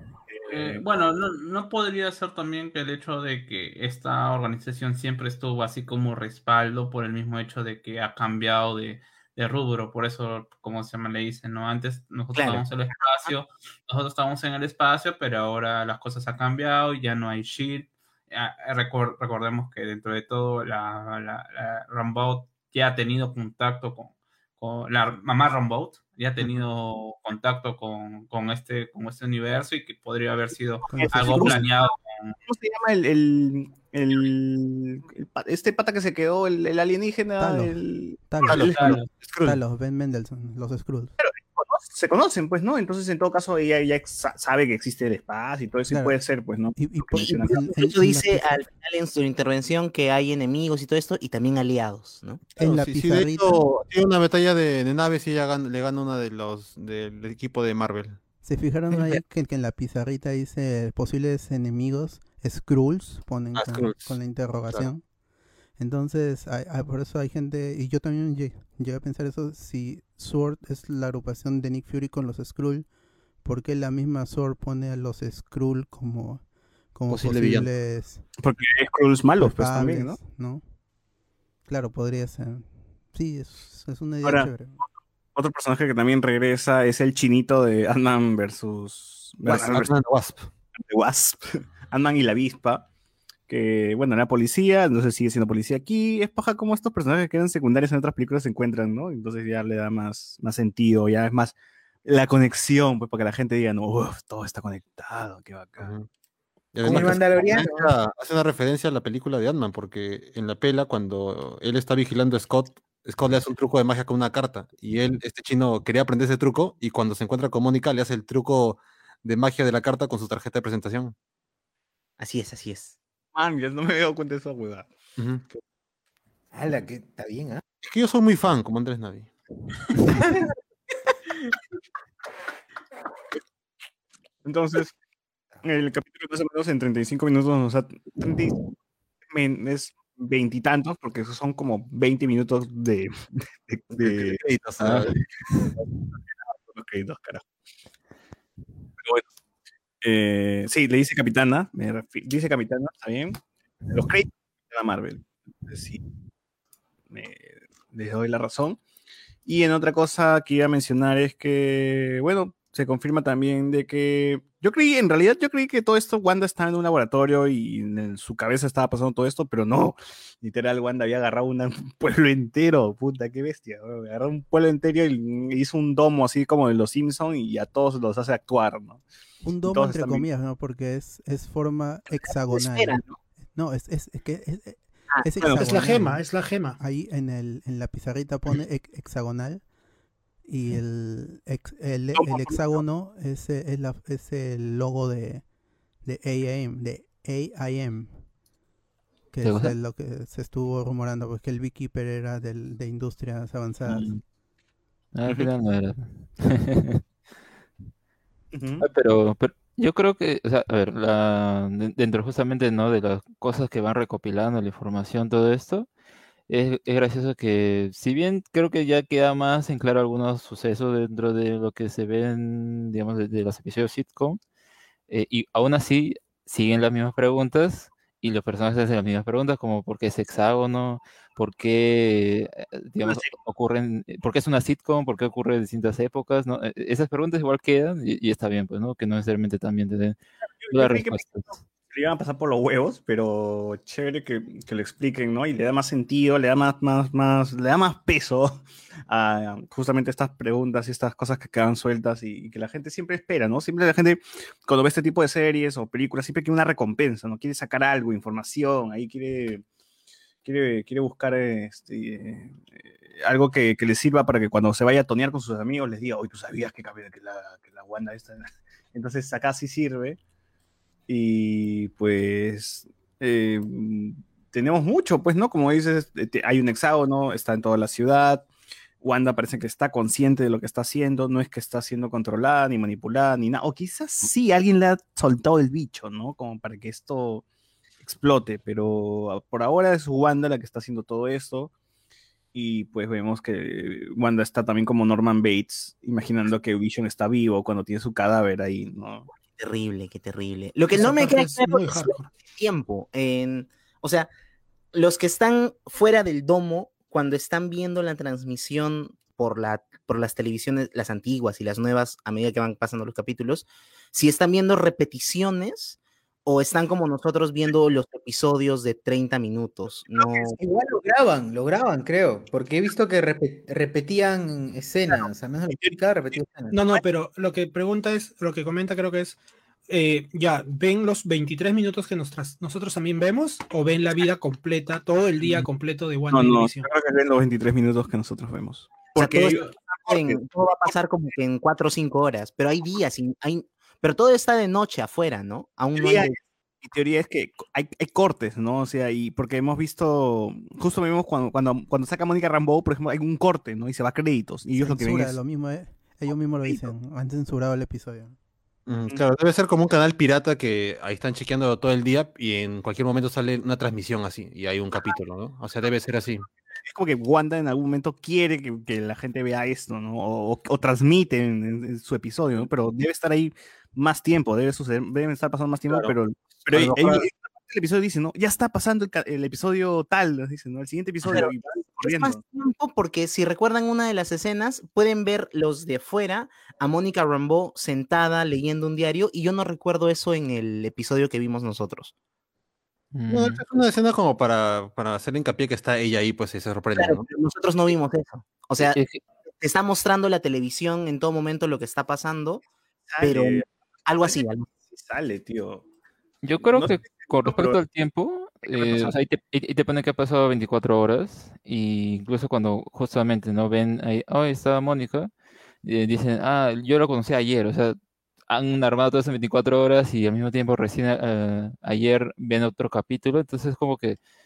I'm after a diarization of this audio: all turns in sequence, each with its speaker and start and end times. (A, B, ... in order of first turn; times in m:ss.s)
0:00.3-0:00.8 A
0:00.5-0:32.4 B
0:12.3-0:12.6 C
0:30.9-0:31.8 D
0:30.9-0:31.5 A
0:32.5-0:38.2 A
0:37.4-0:41.1 D
0:38.4-0:39.0 B
0:38.5-0:39.6 E
0:41.2-0:47.7 A
0:45.9-0:46.2 D
0:46.7-0:48.6 D
0:47.2-0:52.4 C
0:52.6-0:58.2 E
0:52.6-0:53.6 D
0:58.4-1:05.1 D
1:03.6-1:04.2 E
1:05.7-1:18.3 D
1:17.1-1:17.7 E
1:18.4-1:20.2 A
1:19.4-1:20.6 D
1:21.6-1:24.8 D
1:24.2-1:29.9 A
1:29.4-1:30.5 E
1:30.8-1:32.8 A
1:33.5-1:45.9 A
1:46.7-2:01.1 E
1:46.8-1:47.2 A
1:46.8-1:47.9 F
2:02.2-2:03.0 C
2:03.3-2:04.9 A
2:05.2-2:05.4 E
2:06.5-2:07.6 F
2:07.8-2:09.3 E
2:14.4-2:14.9 A
2:15.6-2:18.6 A
2:19.3-2:23.1 A
2:23.7-2:25.2 A
2:23.9-2:25.1 E
2:26.4-2:27.4 A
2:30.0-2:36.0 A
2:37.1-2:38.8 A
2:39.4-2:59.0 A
2:59.4-3:06.2 D
2:59.6-3:00.3 A
3:02.5-3:03.2 C
3:05.2-3:05.6 C
3:05.4-3:05.7 A
3:05.6-3:06.8 G
3:06.8-3:09.7 D
3:10.4-3:18.3 D
3:12.1-3:12.8 A
3:19.3-3:24.1 D
3:19.4-3:19.7 H
3:25.1-3:27.0 H
3:28.5-3:28.9 A
3:28.8-3:35.9 H
3:36.5-3:44.4 H
3:45.1-4:00.2 H
3:53.0-3:53.4 A
4:00.6-4:19.6 A
4:00.7-4:01.6 H
4:20.4-4:30.2 A
4:31.1-4:38.5 A
4:39.0-4:47.4 A
4:48.0-4:51.7 A
4:52.5-4:59.3 A
4:59.5-5:04.3 C
5:00.9-5:02.3 G
5:04.9-5:20.6 C
5:20.2-5:26.7 F
5:26.7-5:36.9 G
5:35.4-5:35.6 A
5:36.3-5:40.4 A
5:39.1-5:46.4 C
5:45.9-5:55.4 A
5:54.8-5:58.3 D
5:56.3-5:56.9 A
5:58.8-6:06.5 E
6:06.8-6:22.4 A
6:16.7-6:17.2 E
6:21.2-6:32.1 C
6:33.1-6:33.6 H
6:33.3-6:37.3 E
6:37.0-6:39.0 C
6:38.8-6:39.2 H
6:39.6-6:42.6 C
6:43.1-6:43.6 A
6:43.2-6:44.7 C
6:44.2-6:45.8 A
6:46.4-6:55.3 H
6:46.6-6:47.8 A
6:48.6-6:49.1 A
6:55.8-6:58.0 H
6:58.5-7:04.2 H